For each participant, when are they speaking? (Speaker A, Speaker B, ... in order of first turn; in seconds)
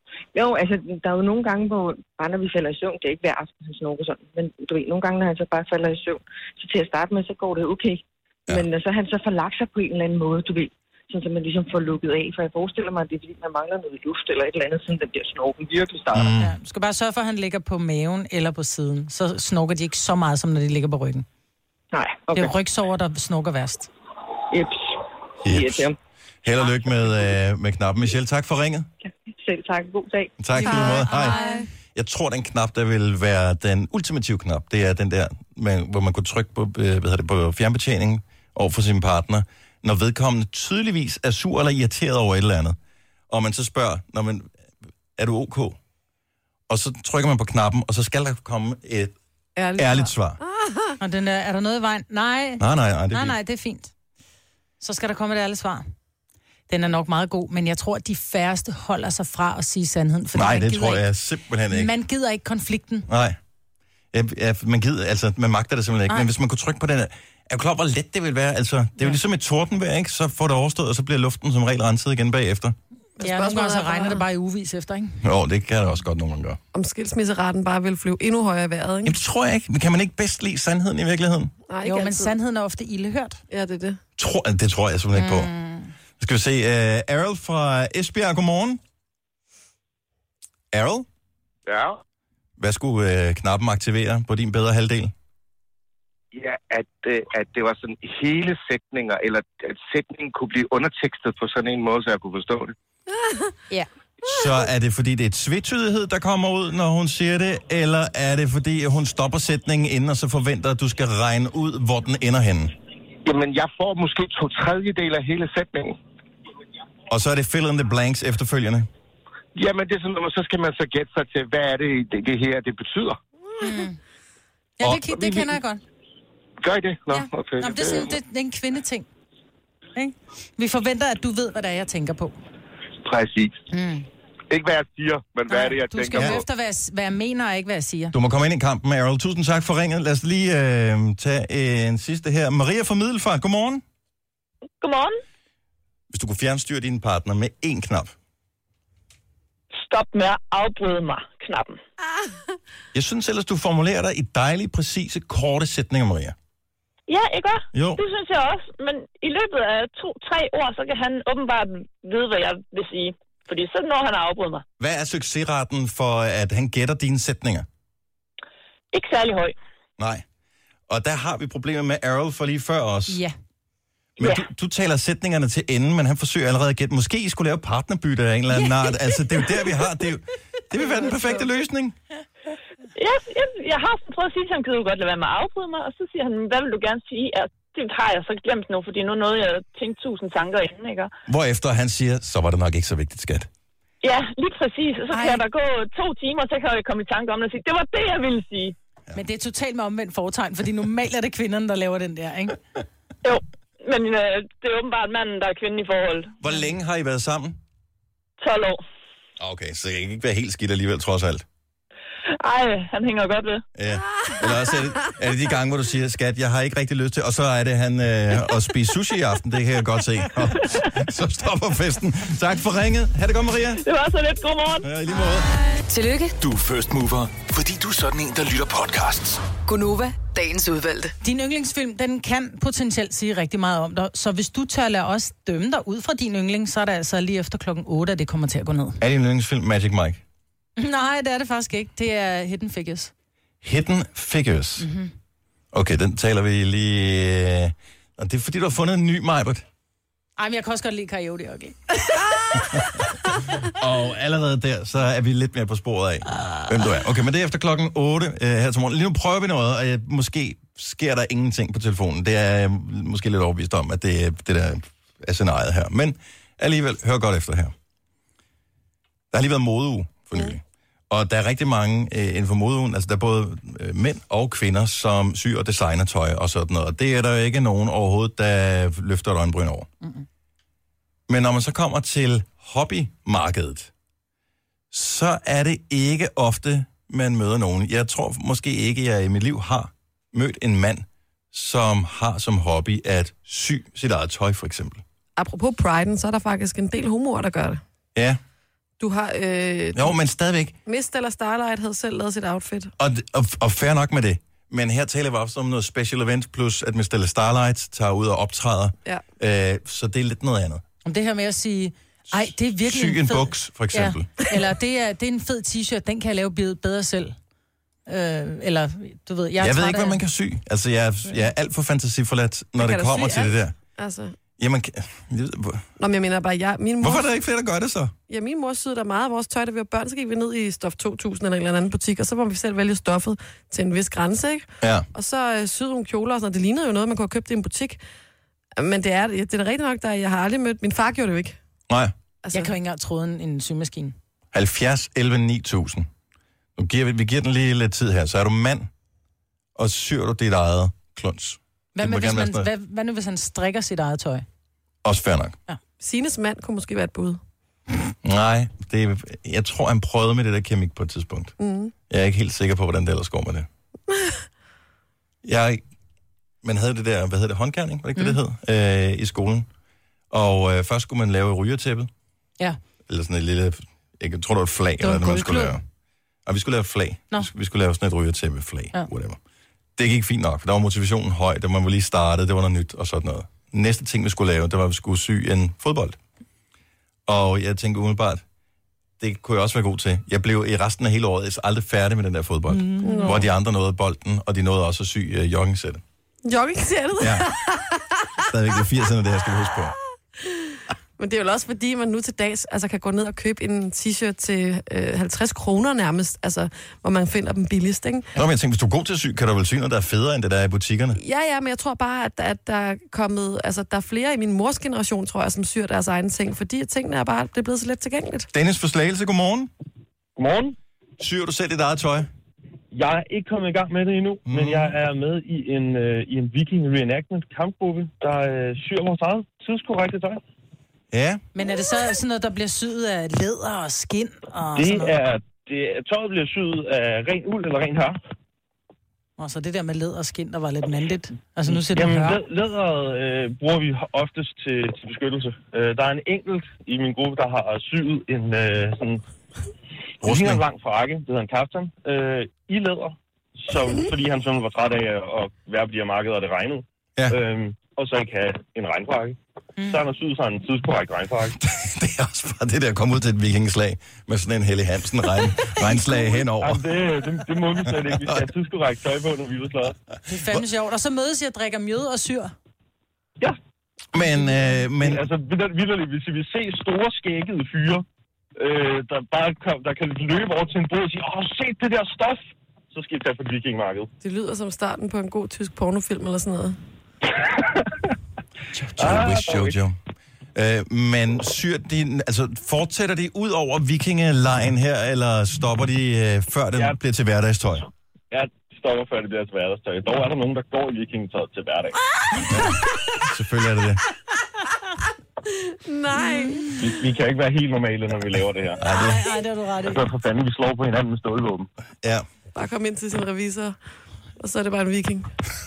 Speaker A: 0.3-16.3, 21.9-22.5, 24.5-25.9, 26.9-27.1, 29.1-30.4
Speaker B: 16.1-16.5, 25.4-25.9, 26.4-28.9, 30.4-31.4, 31.9-42.8, 43.3-44.5, 45.2-45.8, 46.7-49.1, 49.8-50.4, 52.6-53.4, 60.3-62.0, 63.1-63.4, 64.1-72.8, 75.2-76.6, 79.0-81.5, 84.2-85.5, 86.2-88.8, 90.7-91.1, 92.6-95.1, 104.2-112.7, 117.1-118.9, 124.8-125.2, 136.1-136.4, 138.1-143.8, 146.1-148.1, 152.9-156.4, 157.7-158.0, 164.8-167.7, 170.0-170.2, 170.9-173.2, 174.2-182.0, 191.3-193.5, 206.4-207.6, 209.4-211.4, 213.8-223.8, 224.8-225.5, 239.0-240.2, 243.6-244.9, 245.7-249.7, 253.6-267.7, 269.3-279.9, 281.3-283.9, 284.9-295.0, 299.9-300.8, 303.0-310.8, 312.3-314.3, 319.6-323.8, 324.6-325.9, 327.0-328.1, 334.8-335.1, 344.5-346.1, 346.8-348.9, 349.8-352.7, 355.0-355.6, 358.2-361.6, 362.1-363.7, 365.4-365.8, 366.6-369.7, 370.3-372.1, 373.1-375.8, 376.5-379.4, 380.0-386.2, 387.3-388.4, 389.2-396.0, 397.2-397.5, 398.4-399.9, 408.4-411.2, 418.5-419.7, 421.2-422.3, 424.5-425.0, 431.1-431.4, 450.2-450.6, 461.6-466.8, 467.9-468.4, 474.1-475.2, 488.7-490.0, 490.6-497.9, 502.5-504.0, 508.8-509.2
Speaker C: 16.4-21.3, 22.4-23.9, 30.6-31.6, 51.0-53.9, 54.8-55.9, 56.7-61.0, 61.7-63.1, 73.2-75.2, 81.8-83.4, 85.2-85.9, 123.6-124.0, 124.8-125.8, 127.1-129.1, 130.0-132.4, 133.7-134.1, 135.5-138.1, 173.1-173.3, 178.5-179.6, 195.1-195.4, 199.1-202.6, 231.2-239.0, 240.8-243.1, 244.8-245.1, 250.4-251.8, 311.1-317.4, 318.1-320.2, 342.5-344.1, 352.0-354.4, 375.0-375.8, 392.7-393.4, 431.6-435.2, 439.4-442.4, 459.8-460.0, 465.8-466.3, 470.3-472.5, 506.2-506.8, 508.8-510.0
Speaker D: 30.6-31.7, 49.6-51.0, 73.2-74.2, 76.7-79.2, 81.7-82.3, 83.5-84.0, 103.2-103.4, 295.4-297.8, 299.0-300.1, 300.9-302.9, 322.8-324.4, 326.0-327.3, 328.3-338.0, 338.8-341.6, 342.4-342.7, 356.0-357.4, 361.6-361.9, 393.0-393.5, 396.4-398.3, 400.4-408.3, 411.2-418.5, 484.2-486.8, 505.6-506.8, 512.5-513.8, 514.4-515.3
Speaker E: 91.7-92.0, 96.3-102.8, 113.2-116.0, 119.6-123.2, 126.6-128.1, 133.1-133.6, 134.5-136.4
Speaker F: 144.8-145.2, 149.7-151.8, 157.1-164.6, 168.9-169.6, 174.2-174.5, 183.0-191.1, 194.0-198.8, 203.2-206.4, 208.4-208.8, 212.4-213.6, 223.8-224.9
Speaker G: 225.9-226.3, 229.6-231.1
Speaker H: 226.4-229.4
Speaker I: 420.4-420.8, 422.9-430.4, 434.8-438.2, 441.7-449.2, 450.2-461.6, 466.5-470.0, 475.0-478.0, 478.6-484.1, 489.0-489.8, 498.3-502.0, 506.8-508.8, 509.8-511.7